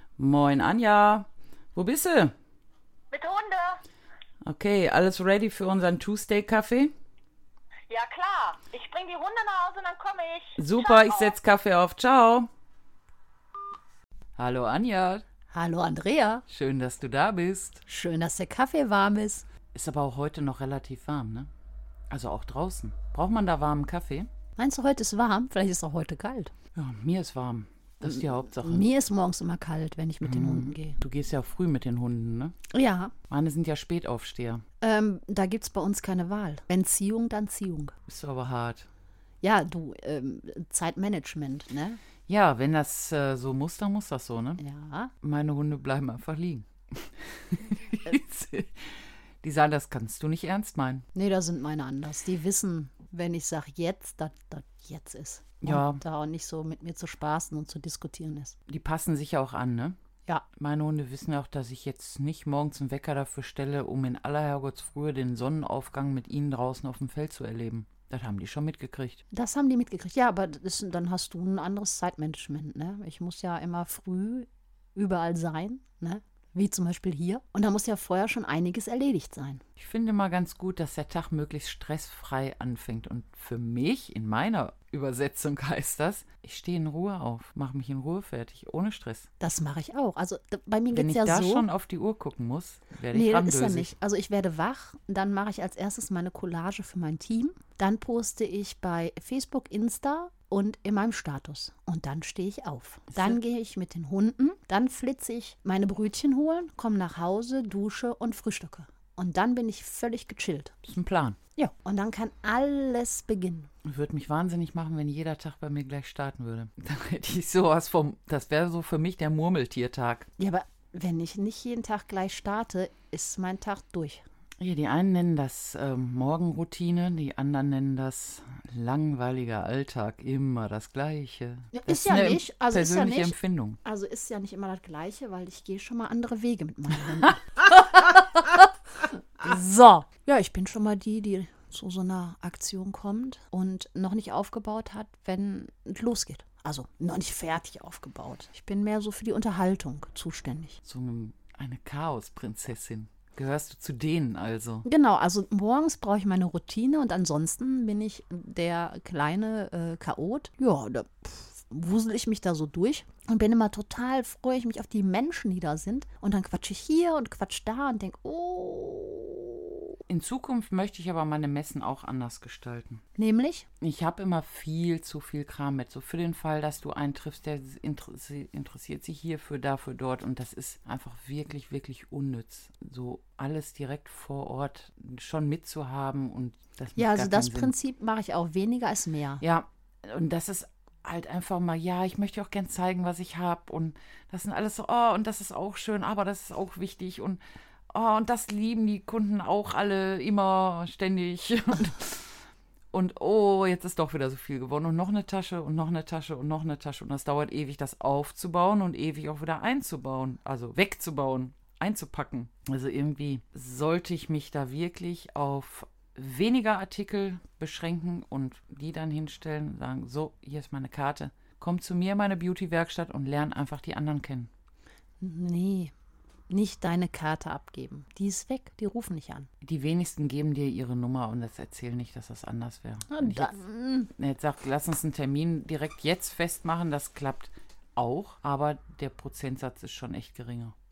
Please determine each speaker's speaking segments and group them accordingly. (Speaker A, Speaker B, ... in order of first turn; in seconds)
Speaker A: 0.2-2.3, 4.4-6.9, 10.6-12.5, 14.4-15.2, 16.5-17.8, 19.7-21.5, 22.1-24.3, 26.7-28.9, 30.2-32.5, 33.3-34.6, 38.1-38.9, 42.3-44.6, 45.2-48.8, 49.4-51.0, 55.6-56.0, 58.7-60.0, 60.6-69.2, 79.8-89.3, 90.9-93.9, 103.1-103.4, 110.8-111.4, 113.8-120.3, 124.6-133.8, 150.8-154.8, 170.1-173.0, 173.8-187.7, 189.4-202.3, 202.9-224.5, 229.6-233.6, 234.1-240.7
Speaker B: 3.1-3.8, 7.9-11.3
Speaker C: 15.5-16.4, 17.9-19.4, 24.6-26.5, 28.0-31.0, 32.7-33.1, 34.8-37.9, 39.4-42.0, 44.6-45.1, 51.1-58.5, 69.3-79.6, 89.4-91.7, 93.1-110.8, 111.5-113.7, 120.4-124.2, 131.7-150.8, 154.8-169.9, 173.2-173.7, 186.9-189.4, 225.2-225.9, 226.5-229.5, 233.1-234.1